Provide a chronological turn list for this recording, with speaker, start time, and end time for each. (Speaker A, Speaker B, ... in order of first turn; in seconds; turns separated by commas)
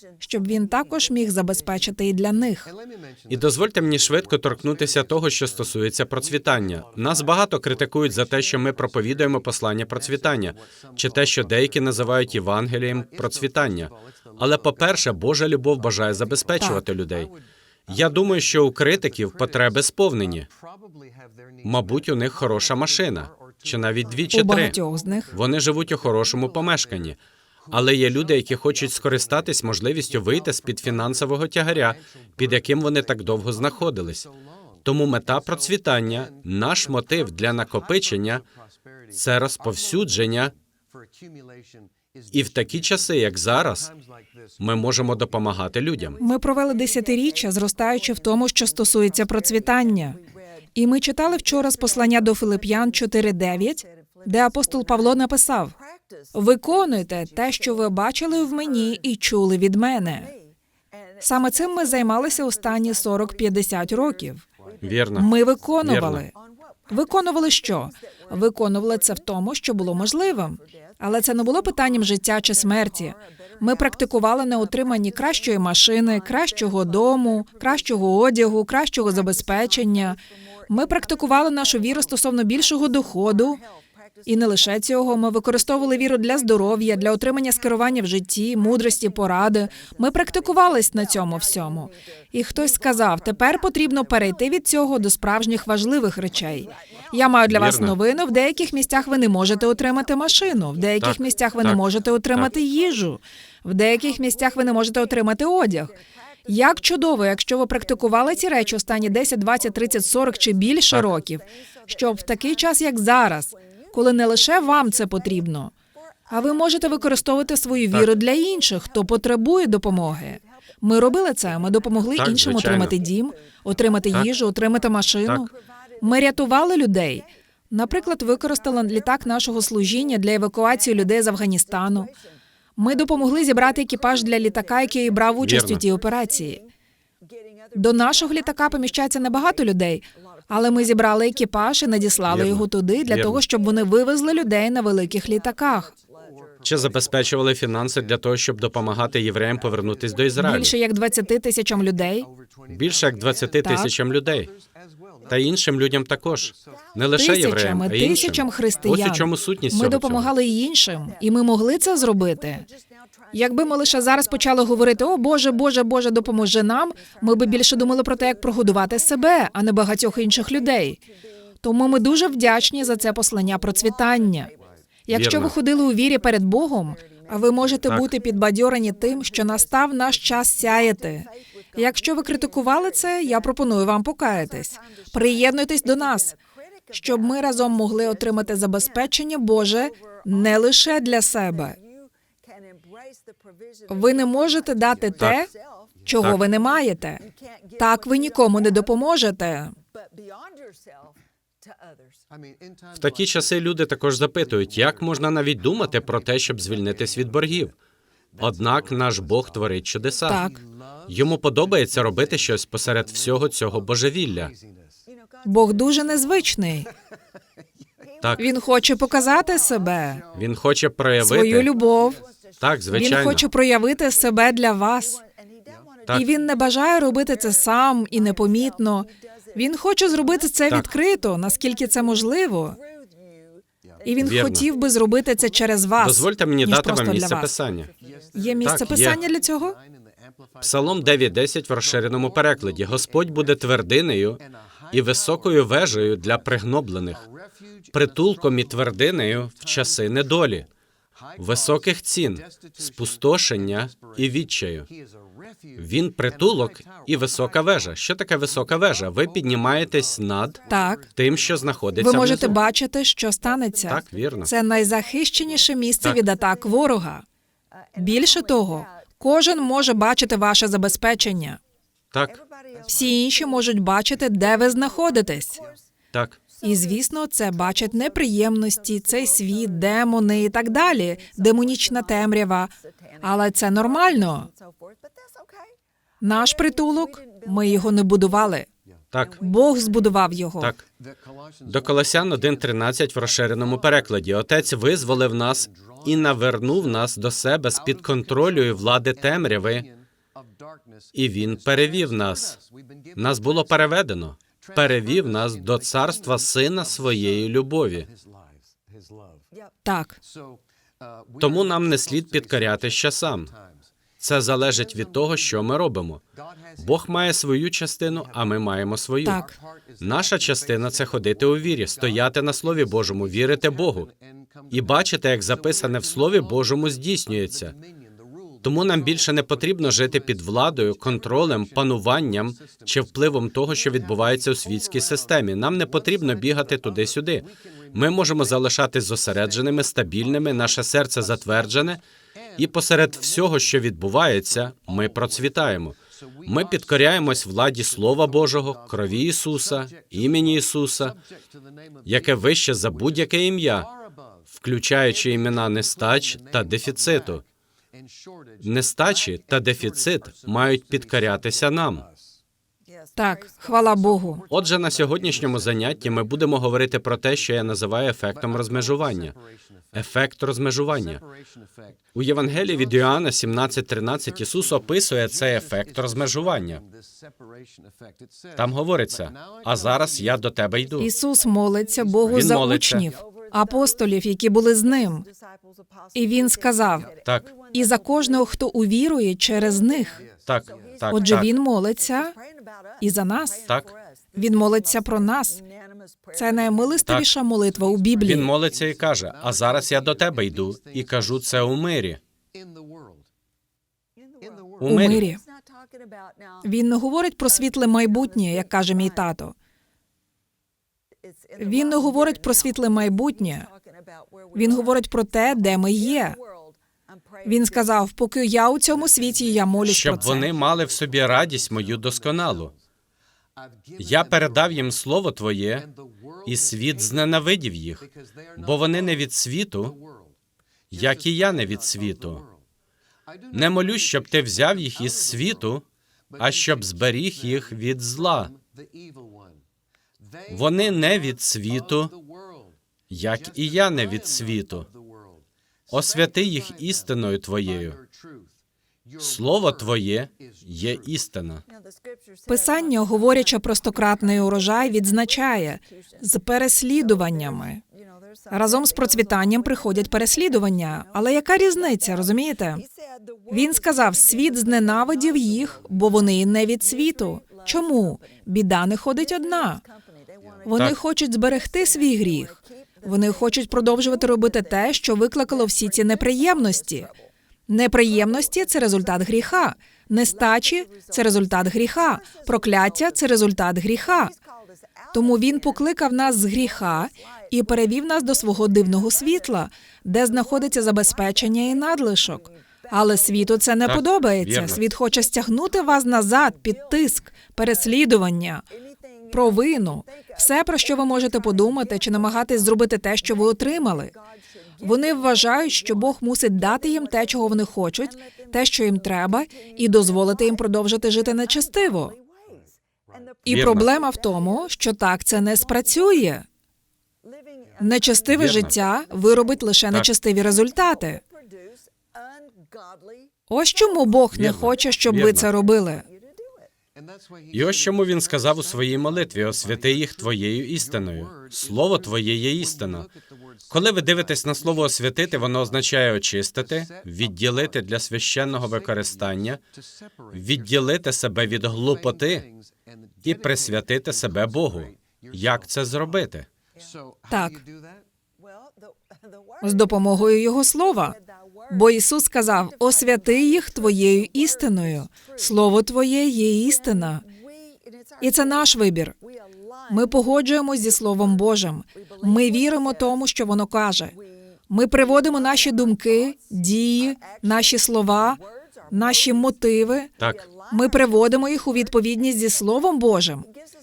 Speaker A: 0.2-2.7, Speaker B: 3.3-17.3, Speaker B: 17.9-20.5, Speaker B: 21.6-24.8, Speaker A: 24.3-25.3, Speaker B: 25.3-27.2, Speaker B: 27.7-34.3, Speaker B: 34.9-38.5, Speaker B: 39.1-40.5, Speaker B: 42.3-43.9, Speaker B: 44.6-46.2, Speaker A: 46.2-50.2, Speaker A: 50.8-55.8, Speaker A: 56.3-60.3, Speaker A: 61.2-64.4, Speaker B: 64.8-65.3, Speaker A: 65.2-66.3, Speaker B: 65.8-66.3, Speaker A: 66.9-83.6, Speaker A: 84.3-115.7, Speaker B: 97.5-98.0, Speaker B: 101.0-101.8, Speaker A: 116.3-132.1, Speaker B: 122.2-123.0, Speaker B: 125.3-125.5, Speaker A: 132.8-136.6, Speaker B: 135.4-135.8, Speaker A: 137.7-145.9, Speaker B: 142.3-143.4, Speaker B: 146.6-150.8, Speaker A: 150.4-152.3, Speaker B: 152.7-154.5, Speaker A: 153.6-153.9, Speaker B: 155.3-160.3, Speaker A: 157.1-162.7, Speaker A: 163.3-171.0, Speaker A: 171.6-174.5, Speaker A: 175.1-186.4, Speaker B: 175.1-175.6, Speaker B: 177.9-178.1, Speaker A: 186.9-191.8, Speaker A: 193.9-195.5, Speaker A: 196.1-197.2, Speaker A: 197.8-199.8, Speaker B: 202.9-207.7, Speaker B: 208.4-210.5, Speaker A: 210.3-210.6, Speaker B: 211.1-214.5, Speaker A: 215.4-216.9, Speaker B: 218.2-218.5, Speaker A: 218.4-220.2, Speaker B: 220.3-221.7, Speaker A: 221.2-222.2, Speaker B: 222.6-223.5, Speaker A: 222.9-225.2, Speaker A: 226.1-232.8, Speaker A: 234.1-237.5, Speaker B: 234.2-234.7, Speaker B: 236.0-237.9, Speaker A: 238.3-239.8, Speaker B: 238.6-239.2, Speaker B: 240.6-247.2, Speaker B: 247.9-250.7, Speaker B: 251.4-254.9, Speaker B: 255.8-260.6, Speaker A: 260.7-261.0, Speaker B: 261.1-262.6, Speaker A: 262.0-267.2, Speaker B: 263.9-264.5, Speaker A: 267.9-271.6, Speaker B: 272.1-272.4, Speaker A: 272.9-275.7, Speaker B: 276.1-276.4, Speaker A: 276.6-284.5, Speaker A: 286.2-288.7, Speaker B: 289.1-289.4, Speaker A: 289.4-290.7, Speaker B: 291.6-299.9, Speaker B: 301.1-302.6, Speaker B: 303.1-308.1, Speaker A: 309.8-310.2, Speaker B: 311.4-313.5, Speaker B: 314.2-316.2, Speaker B: 316.8-319.4, Speaker A: 319.2-319.6, Speaker B: 320.0-324.1, Speaker B: 324.7-327.8, Speaker B: 328.6-342.0, Speaker B: 342.6-351.2, Speaker B: 352.1-353.9, Speaker B: 354.5-357.4, Speaker B: 358.6-362.1, Speaker A: 363.2-364.4, Speaker B: 364.5-369.4, Speaker B: 369.9-371.2, Speaker B: 372.1-376.8, Speaker B: 378.6-381.1, Speaker A: 381.0-385.3, Speaker B: 382.3-383.1, Speaker A: 386.1-387.1, Speaker B: 387.2-387.5, Speaker A: 387.7-390.2, Speaker B: 390.5-391.5, Speaker A: 391.1-392.3, Speaker A: 393.0-393.7, Speaker B: 393.7-393.9, Speaker A: 394.4-395.6, Speaker A: 396.3-398.5, Speaker B: 398.2-402.2, Speaker B: 404.8-405.2, Speaker A: 404.8-405.4, Speaker A: 406.6-409.6, Speaker A: 411.6-413.7, Speaker A: 414.5-416.4, Speaker A: 417.4-420.5, Speaker B: 419.9-422.7, Speaker B: 424.0-425.9, Speaker B: 426.5-430.0, Speaker B: 430.9-432.4, Speaker B: 433.5-435.8, Speaker B: 436.4-438.5, Speaker B: 440.5-442.1, Speaker B: 443.1-444.9, Speaker B: 445.9-448.0, Speaker B: 449.2-451.6, Speaker A: 452.5-457.8, Speaker A: 458.5-462.8, Speaker A: 463.5-469.8, Speaker A: 470.7-477.1, Speaker A: 477.7-484.3, Speaker A: 485.1-498.6, Speaker B: 493.9-494.8, Speaker A: 499.3-504.1, Speaker A: 504.8-512.1, Speaker A: 513.4-516.5, Speaker B: 513.5-513.9, Speaker A: 517.8-521.2, Speaker B: 518.3-518.7, Speaker A: 523.5-526.1, Speaker B: 524.3-525.5, Speaker B: 527.5-533.1, Speaker B: 533.7-539.6, Speaker B: 540.3-542.5, Speaker B: 543.2-546.5, Speaker A: 547.3-547.6, Speaker A: 549.6-551.2, Speaker A: 551.7-557.2, Speaker A: 558.2-559.1, Speaker A: 559.9-564.1, Speaker A: 564.7-570.1, Speaker B: 570.2-570.5, Speaker A: 570.7-573.5